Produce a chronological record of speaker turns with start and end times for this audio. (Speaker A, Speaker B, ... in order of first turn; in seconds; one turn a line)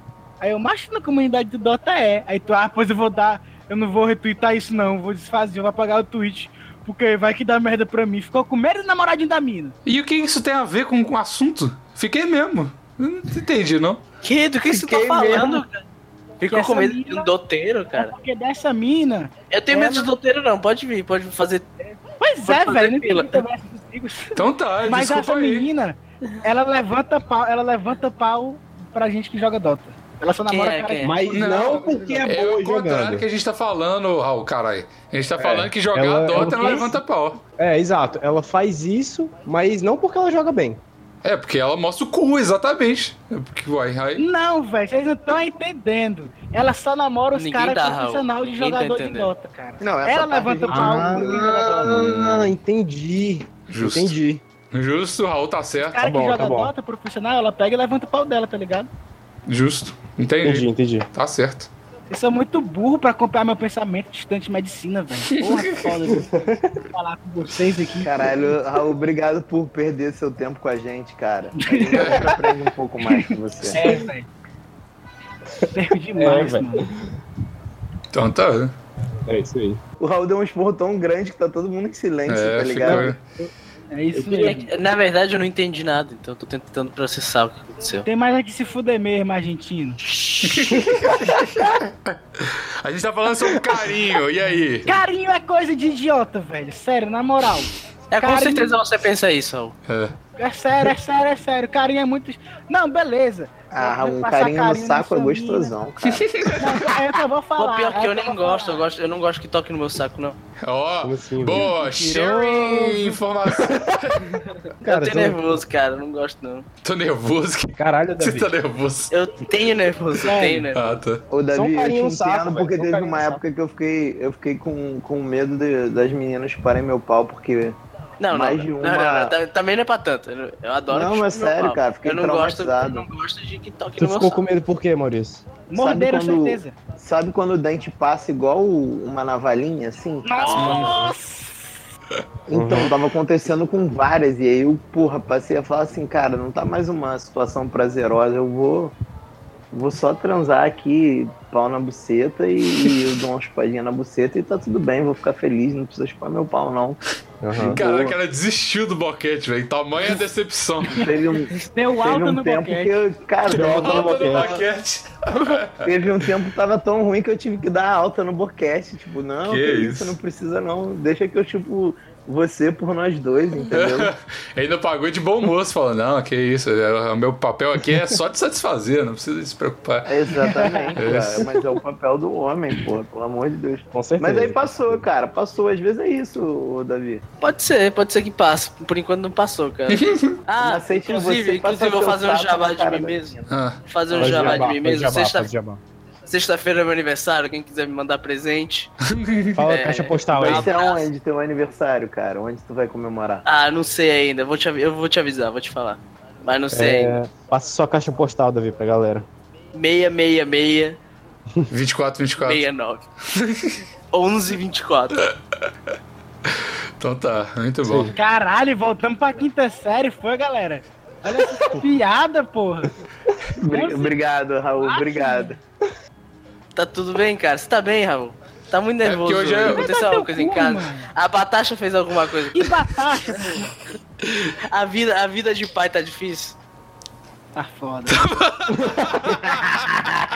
Speaker A: 0.4-9.7
Speaker B: 9.8-14.0
Speaker C: 14.2-15.8
Speaker D: 14.7-15.6
Speaker C: 16.4-18.1
Speaker A: 16.5-17.3
Speaker A: 17.9-20.1
Speaker C: 19.5-21.7
Speaker A: 22.2-32.2
Speaker C: 22.4-23.4
Speaker B: 24.3-25.7
Speaker C: 30.5-31.1
Speaker E: 31.0-33.2
Speaker B: 31.3-37.4
Speaker E: 35.4-37.0
Speaker E: 37.6-40.8
Speaker B: 41.2-44.2
Speaker A: 44.2-51.9
Speaker C: 47.3-49.3
Speaker D: 49.8-52.3
Speaker E: 50.7-54.4
Speaker B: 53.7-54.2
Speaker B: 54.7-56.0
Speaker A: 55.9-58.9
Speaker E: 56.0-56.7
Speaker B: 59.5-61.7
Speaker E: 60.4-61.1
Speaker A: 62.1-68.1
Speaker B: 65.4-65.6
Speaker E: 66.1-66.7
Speaker D: 68.0-73.8
Speaker A: 71.6-72.3
Speaker B: 71.9-72.3
Speaker A: 73.0-74.3
Speaker E: 73.7-74.1
Speaker A: 75.7-76.8
Speaker E: 76.2-77.1
Speaker B: 78.1-78.7
Speaker E: 79.3-79.8
Speaker D: 80.0-83.1
Speaker B: 82.3-83.2
Speaker E: 82.8-83.5
Speaker A: 83.9-84.7
Speaker E: 84.1-84.5
Speaker C: 84.3-88.0
Speaker A: 88.0-90.0
Speaker E: 90.1-91.6
Speaker B: 90.4-91.5
Speaker B: 92.0-94.9
Speaker E: 93.3-94.1
Speaker A: 94.8-98.7
Speaker C: 98.1-99.8
Speaker B: 99.9-100.1
Speaker A: 100.4-105.7
Speaker D: 103.7-106.5
Speaker B: 106.1-106.7
Speaker A: 106.5-108.8
Speaker C: 107.6-110.4
Speaker B: 110.6-114.3
Speaker E: 111.0-111.7
Speaker A: 111.7-113.2
Speaker E: 114.8-115.6
Speaker C: 114.8-116.7
Speaker B: 116.8-119.1
Speaker E: 117.8-118.5
Speaker C: 119.1-121.0
Speaker A: 120.2-120.6
Speaker B: 120.7-121.2
Speaker D: 121.3-127.8
Speaker E: 121.5-123.4
Speaker C: 128.2-134.4
Speaker D: 128.3-129.3
Speaker D: 130.9-133.1
Speaker E: 134.0-135.4
Speaker A: 135.7-136.8
Speaker D: 135.7-141.0
Speaker A: 140.2-141.7
Speaker D: 142.5-148.9
Speaker E: 142.5-142.9
Speaker D: 149.7-157.0
Speaker E: 157.4-157.8
Speaker D: 157.6-158.2
Speaker B: 157.7-161.0
Speaker D: 160.9-164.6
Speaker A: 161.6-162.9
Speaker E: 163.5-164.6
Speaker B: 163.5-165.9
Speaker D: 165.8-174.1
Speaker B: 169.4-170.2
Speaker B: 173.7-180.1
Speaker D: 180.0-187.2
Speaker A: 180.4-180.9
Speaker B: 180.9-181.4
Speaker E: 181.0-181.5
Speaker E: 183.9-185.1
Speaker C: 187.4-195.5
Speaker B: 189.9-190.4
Speaker D: 190.6-193.5
Speaker B: 193.5-193.8
Speaker D: 194.1-194.7
Speaker E: 194.1-195.8
Speaker C: 196.2-198.9
Speaker B: 199.1-199.6
Speaker E: 199.5-200.7
Speaker C: 199.7-201.1
Speaker D: 200.3-203.4
Speaker C: 203.4-207.2
Speaker E: 206.7-209.3
Speaker C: 209.7-211.0
Speaker B: 211.7-212.7
Speaker C: 212.4-213.0
Speaker B: 213.3-213.8
Speaker C: 214.1-215.2
Speaker B: 216.5-218.1
Speaker E: 217.8-218.1
Speaker A: 218.1-222.9
Speaker D: 223.6-225.6
Speaker A: 223.7-224.2
Speaker A: 224.8-225.5
Speaker C: 226.7-232.8
Speaker B: 229.0-229.9
Speaker A: 229.7-231.1
Speaker A: 232.5-233.7
Speaker C: 234.6-236.6
Speaker A: 237.6-238.2
Speaker B: 238.1-239.9
Speaker E: 238.7-239.4